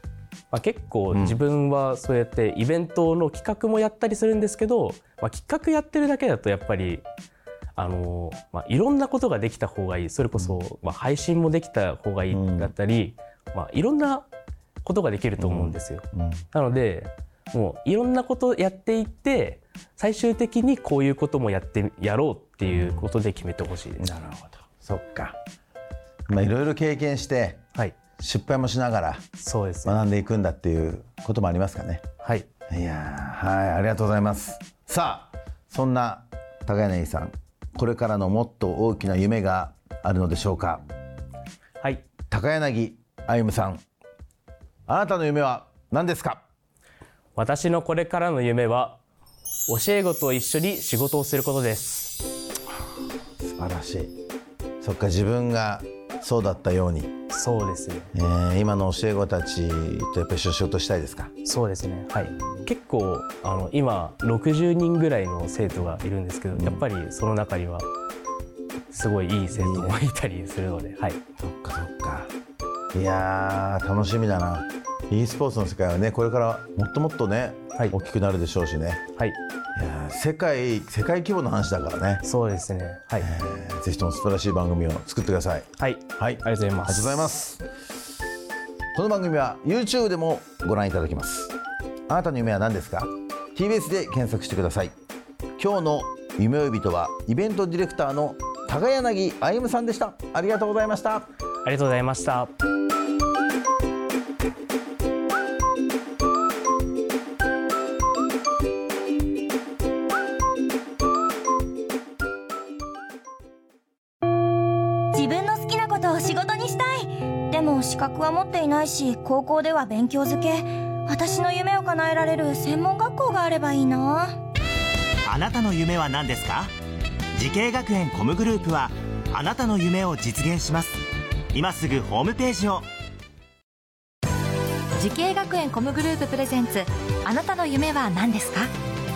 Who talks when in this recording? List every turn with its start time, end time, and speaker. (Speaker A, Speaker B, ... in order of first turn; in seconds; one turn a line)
Speaker A: 0.5-7.0
Speaker B: 1.1-1.4
Speaker A: 7.8-14.2
Speaker B: 12.3-12.7
Speaker A: 14.8-24.1
Speaker B: 15.4-16.4
Speaker B: 22.6-23.1
Speaker B: 24.0-25.4
Speaker B: 26.3-27.6
Speaker B: 28.2-29.2
Speaker A: 29.4-30.0
Speaker B: 29.8-32.0
Speaker A: 32.2-32.5
Speaker B: 32.7-40.8
Speaker B: 42.3-43.8
Speaker B: 44.9-46.4
Speaker A: 47.4-49.0
Speaker A: 49.7-52.2
Speaker B: 53.4-54.1
Speaker B: 54.8-57.1
Speaker A: 57.3-58.1
Speaker B: 58.1-61.3
Speaker A: 61.4-67.9
Speaker B: 66.5-66.8
Speaker A: 68.9-71.2
Speaker B: 69.5-70.0
Speaker B: 71.4-72.3
Speaker B: 72.9-79.0
Speaker B: 79.7-82.2
Speaker A: 82.2-83.3
Speaker B: 83.2-87.6
Speaker A: 85.8-87.5
Speaker B: 88.9-91.5
Speaker B: 92.1-94.9
Speaker B: 95.6-101.3
Speaker A: 101.6-102.5
Speaker C: 115.1-124.4
Speaker D: 125.3-126.7
Speaker D: 127.3-131.0
Speaker D: 131.5-132.8
Speaker E: 135.0-138.7